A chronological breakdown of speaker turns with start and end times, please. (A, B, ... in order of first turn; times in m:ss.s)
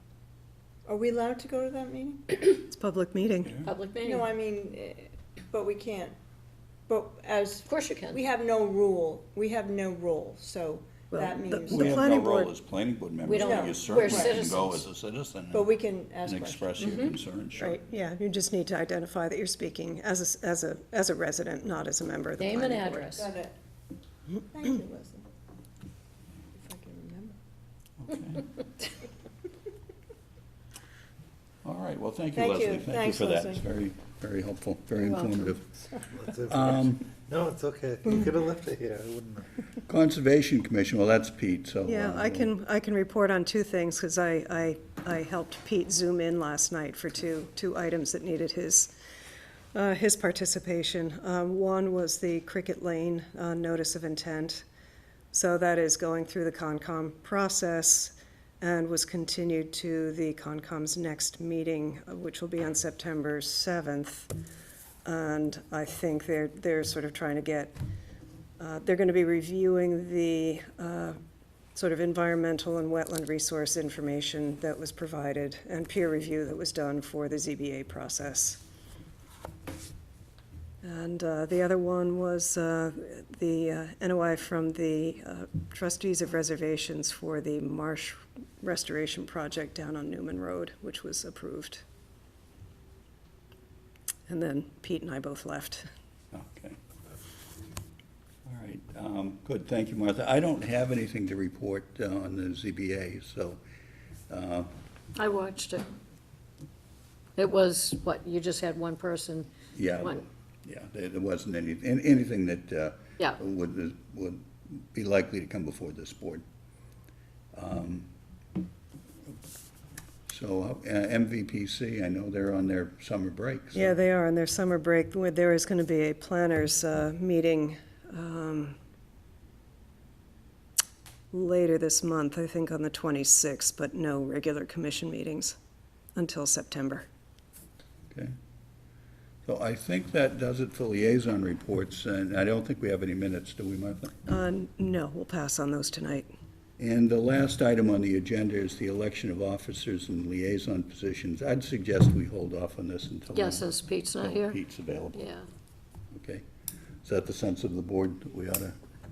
0:00.8-0:02.4 A
0:02.6-0:03.6 B
0:03.6-0:04.3 C
0:04.0-0:06.2 A
0:06.9-0:12.1 A
0:07.7-0:08.2 C
0:11.1-0:12.5 B
0:11.7-0:15.7 D
0:13.2-0:14.9 C
0:13.3-0:14.4 A
0:15.5-0:17.8 A
0:16.2-0:17.8 D
0:17.6-0:23.1 B
0:22.4-0:23.3 C
0:23.1-0:23.5 A
0:24.5-0:25.2 A
0:26.5-0:27.4 A
0:28.0-0:28.5 D
0:31.6-0:35.6 D
0:32.3-0:33.6 A
0:35.0-0:35.4 C
0:36.1-0:39.5 E
0:36.5-0:37.1 D
0:39.8-0:42.5 D
0:41.8-0:48.9 B
0:49.7-0:54.6 B
0:55.3-1:04.3 B
1:05.0-1:07.8 B
1:08.6-1:11.2 B
1:11.7-1:18.6 B
1:20.8-1:31.8 B
1:34.3-1:35.9 B
1:36.3-1:36.8 D
1:38.4-1:43.6 D
1:44.3-1:44.7 D
1:45.2-1:45.8 C
1:47.4-1:49.5 C
1:49.7-1:56.4 D
1:57.6-1:58.1 D
2:00.3-2:04.0 D
2:03.7-2:08.8 B
2:11.3-2:15.6 B
2:16.2-2:17.1 B
2:19.4-2:24.1 D
2:24.3-2:26.3 B
2:26.8-2:35.3 D
2:33.3-2:34.6 C
2:35.1-2:35.5 C
2:36.1-2:36.4 D
2:37.0-2:38.8 D